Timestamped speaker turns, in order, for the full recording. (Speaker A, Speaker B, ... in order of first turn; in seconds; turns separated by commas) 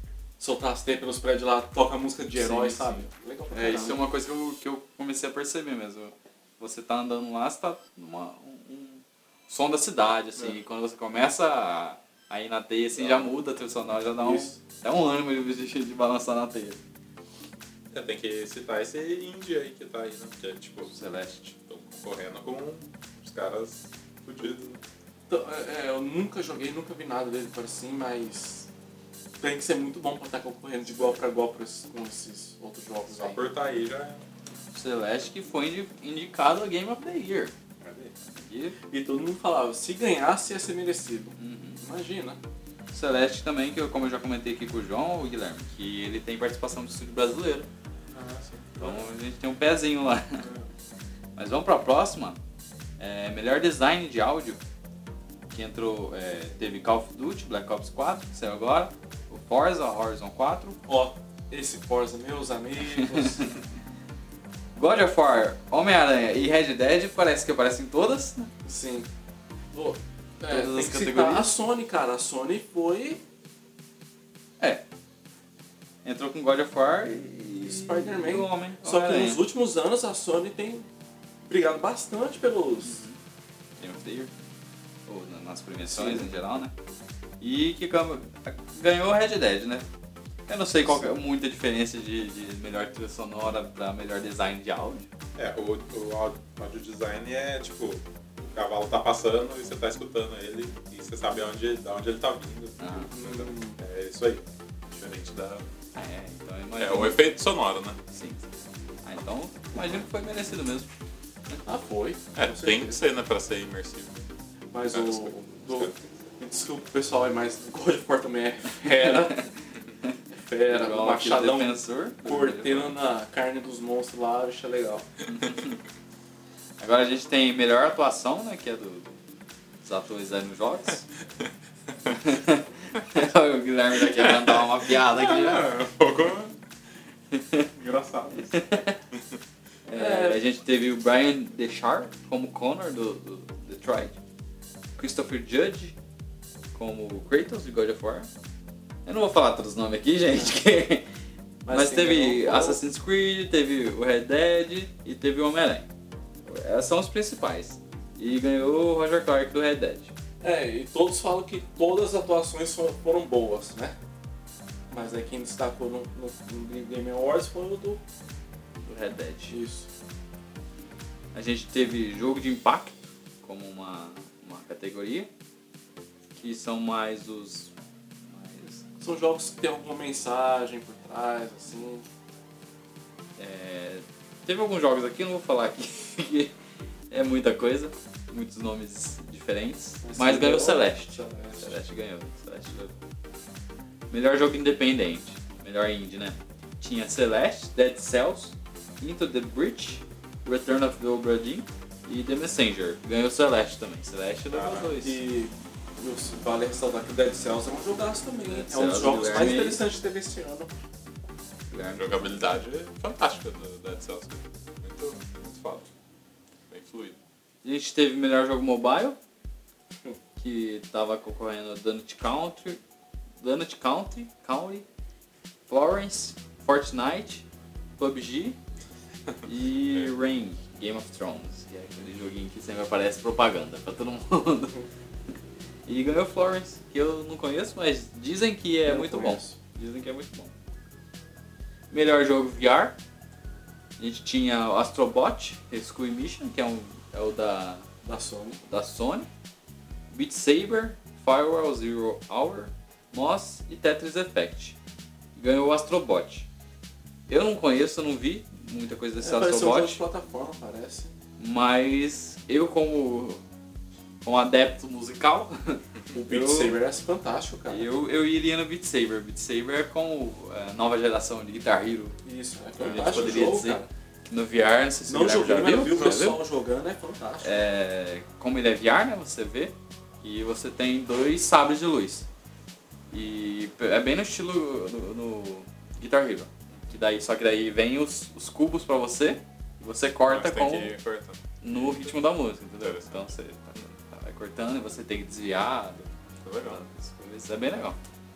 Speaker A: 0.4-4.0, Speaker B: 2.4-16.8, Speaker C: 13.0-13.3, Speaker A: 14.2-14.6, Speaker C: 17.9-20.9, Speaker B: 20.9-21.5, Speaker C: 21.5-24.8, Speaker A: 25.3-28.7, Speaker A: 29.4-33.4, Speaker C: 33.1-34.2, Speaker B: 34.7-37.5, Speaker C: 37.8-38.1, Speaker B: 38.4-38.8, Speaker A: 38.9-42.4, Speaker B: 41.4-41.8, Speaker B: 42.9-47.7, Speaker C: 48.1-49.0, Speaker B: 48.8-50.5, Speaker C: 50.4-50.7, Speaker B: 51.4-52.4, Speaker B: 53.0-54.6, Speaker B: 55.5-60.8, Speaker A: 60.9-63.5, Speaker B: 62.8-63.5, Speaker B: 64.8-68.5, Speaker A: 68.7-69.1, Speaker A: 69.7-73.2, Speaker B: 70.5-71.5, Speaker B: 76.0-79.4, Speaker A: 77.6-80.9, Speaker A: 81.5-83.0, Speaker B: 82.8-83.2, Speaker B: 83.8-84.3, Speaker B: 85.1-86.7, Speaker A: 85.8-86.3, Speaker B: 87.4-89.9, Speaker B: 90.5-95.1, Speaker C: 95.3-105.7, Speaker B: 102.8-103.1, Speaker A: 103.1-103.8, Speaker B: 106.0-107.2, Speaker C: 106.8-108.0, Speaker B: 108.1-108.5, Speaker B: 109.0-110.9, Speaker A: 111.7-113.0, Speaker C: 112.4-114.3, Speaker A: 114.7-119.4, Speaker C: 114.9-116.2, Speaker B: 118.9-120.2, Speaker A: 120.3-125.1, Speaker B: 120.7-123.0, Speaker B: 125.3-125.8, Speaker B: 126.8-129.1, Speaker B: 129.8-131.1, Speaker B: 132.1-135.7, Speaker C: 133.9-136.6, Speaker B: 137.3-137.7, Speaker C: 137.8-139.4, Speaker B: 138.5-139.0, Speaker B: 139.9-144.2, Speaker A: 139.9-140.4, Speaker B: 145.0-146.0, Speaker B: 146.7-148.3, Speaker B: 149.1-151.1, Speaker A: 151.7-152.8, Speaker B: 151.7-155.9, Speaker B: 156.5-160.1, Speaker A: 160.4-163.9, Speaker A: 164.9-168.0, Speaker B: 168.8-169.6, Speaker A: 169.5-169.9, Speaker B: 171.3-175.3, Speaker B: 176.3-177.7, Speaker B: 178.3-178.8, Speaker A: 179.0-182.1, Speaker B: 183.4-186.5, Speaker B: 187.1-192.9, Speaker A: 190.0-191.8, Speaker B: 194.1-205.2, Speaker C: 204.5-204.9, Speaker A: 205.0-210.7, Speaker B: 208.5-209.8, Speaker B: 211.7-212.5, Speaker C: 212.0-215.9, Speaker C: 216.7-217.2, Speaker B: 217.6-219.2, Speaker B: 220.4-222.8, Speaker B: 223.4-224.8, Speaker B: 225.7-227.4, Speaker B: 228.0-228.6, Speaker B: 229.4-234.8, Speaker B: 235.9-240.5, Speaker A: 238.9-239.6, Speaker B: 241.9-243.0, Speaker B: 244.0-247.9, Speaker A: 248.0-248.6, Speaker B: 248.6-249.3, Speaker B: 250.1-254.8, Speaker B: 255.4-256.5, Speaker B: 257.3-260.0, Speaker A: 259.2-261.1, Speaker B: 261.4-263.4, Speaker B: 264.2-266.8, Speaker A: 266.1-267.9, Speaker B: 267.7-272.2, Speaker A: 272.2-273.9, Speaker C: 272.8-273.5, Speaker B: 272.8-276.4, Speaker A: 275.1-277.6, Speaker B: 277.4-282.3, Speaker B: 283.1-290.9, Speaker C: 290.3-292.1, Speaker B: 291.6-296.1, Speaker C: 292.8-293.2, Speaker C: 296.4-296.8, Speaker B: 296.6-298.0